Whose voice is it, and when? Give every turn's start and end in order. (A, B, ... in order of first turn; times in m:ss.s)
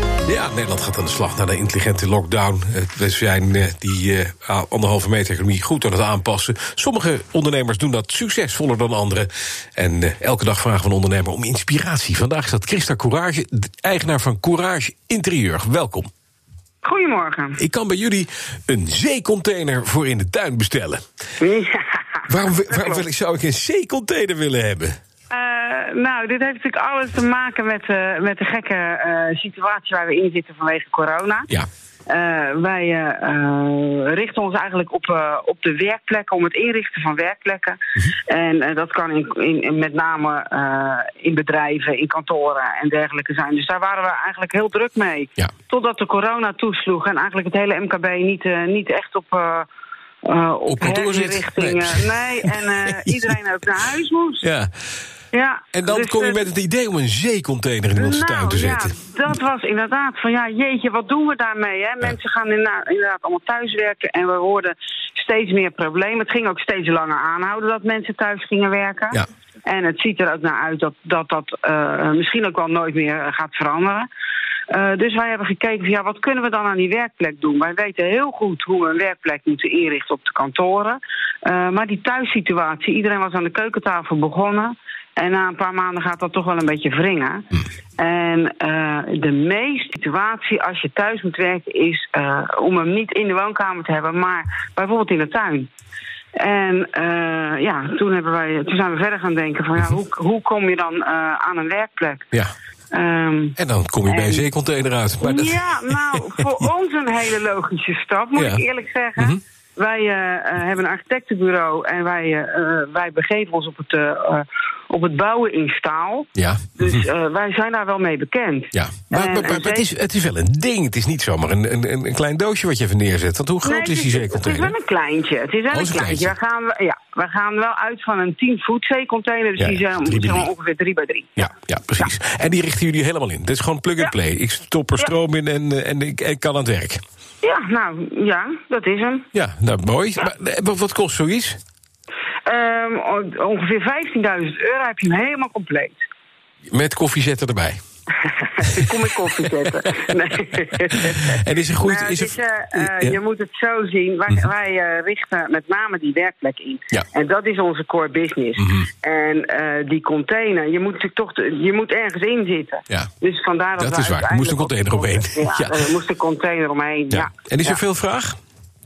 0:00.2-0:16.1 A
0:16.8-0:17.6 B
0:17.6-0:21.0 A
0:21.4-0:23.0 B
0:22.3-0:25.0 A
0:25.3-0:31.5 B
0:32.1-0:49.7 B
0:50.2-0:54.4 B
0:50.7-0:53.2 A
0:54.4-0:54.7 A
0:55.3-0:56.4 B
0:55.7-0:59.0 A
0:58.0-1:14.1 B
1:14.7-1:35.7 B
1:36.4-1:42.3 B
1:42.9-1:44.4 B
1:43.6-1:46.4 A
1:45.2-1:59.8 B
1:48.4-1:48.6 A
1:56.4-1:57.0 A
1:58.7-2:04.7 A
2:03.6-2:11.4 B
2:05.7-2:06.3 A
2:09.6-2:10.5 A
2:11.4-2:17.0 A
2:17.4-2:19.3 B
2:19.3-2:21.6 A
2:22.4-2:26.0 B
2:26.7-2:27.8 A
2:28.2-2:47.8 B
2:30.9-2:33.2 A
2:38.6-2:38.8 A
2:43.8-2:45.8 A
2:47.1-2:48.4 A